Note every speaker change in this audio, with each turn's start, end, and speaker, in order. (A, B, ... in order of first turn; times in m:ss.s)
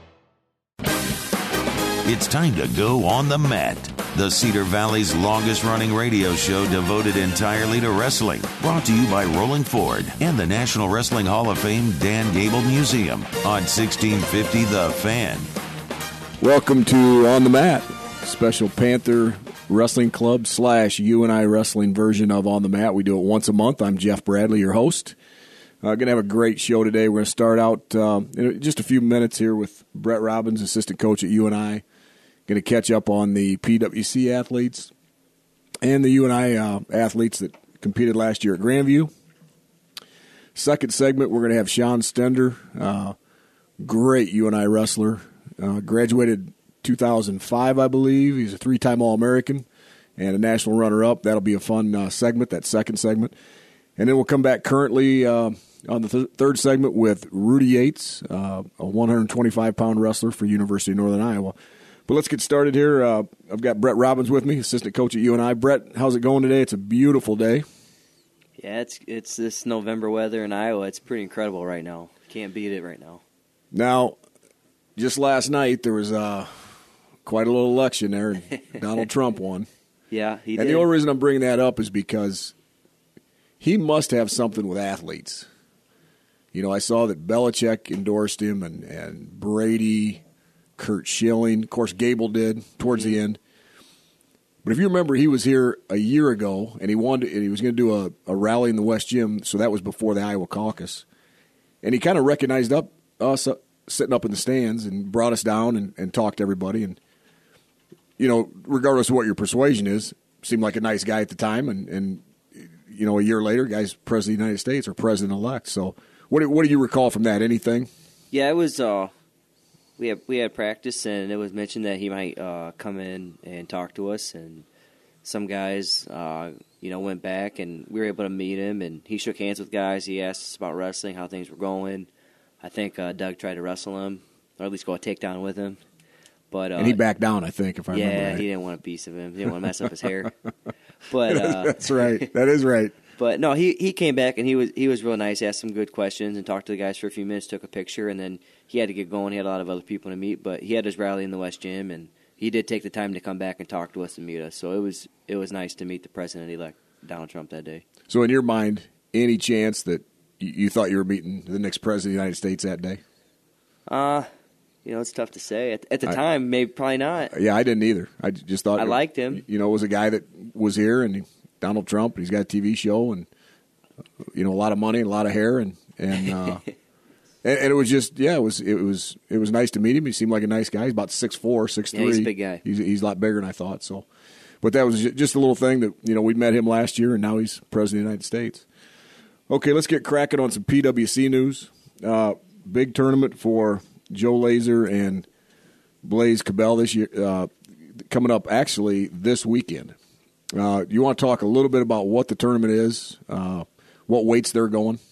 0:02.0-0:15.5 A
0:16.4-0:25.2 B
0:25.8-0:31.8 B
0:32.5-0:34.9 B
0:35.8-0:39.1 B
0:40.5-0:43.2 B
0:43.8-0:49.6 B
0:50.2-0:53.3 B
0:54.0-1:01.6 B
1:02.1-1:07.6 B
1:08.6-1:13.2 C
1:13.7-1:14.2 B
1:15.0-1:19.7 B
1:20.1-1:20.9 C
1:20.6-1:22.5 B
1:23.6-1:25.5 B
1:26.5-1:30.2 B
1:30.8-1:33.4 B
1:34.6-1:41.0 B
1:41.8-1:47.0 B
1:48.2-1:57.9 B
1:58.3-1:59.1 C
2:00.0-2:04.6 C
2:05.2-2:12.1 C
2:12.6-2:15.8 C
2:16.5-2:17.0 C
2:16.8-2:18.4 B
2:17.9-2:20.3 C
2:21.0-2:22.3 C
2:21.3-2:22.9 B
2:23.2-2:37.8 C
2:38.1-2:43.0 B
2:43.9-2:44.3 C
2:44.8-2:47.3 C
2:47.3-2:53.3 B
2:48.7-2:49.4 C
2:54.3-2:56.6 B
2:57.4-3:04.0 B
3:01.9-3:02.6 C
3:04.6-3:08.6 B
3:09.5-3:15.3 B
3:16.0-3:20.0 B
3:20.5-3:25.0 B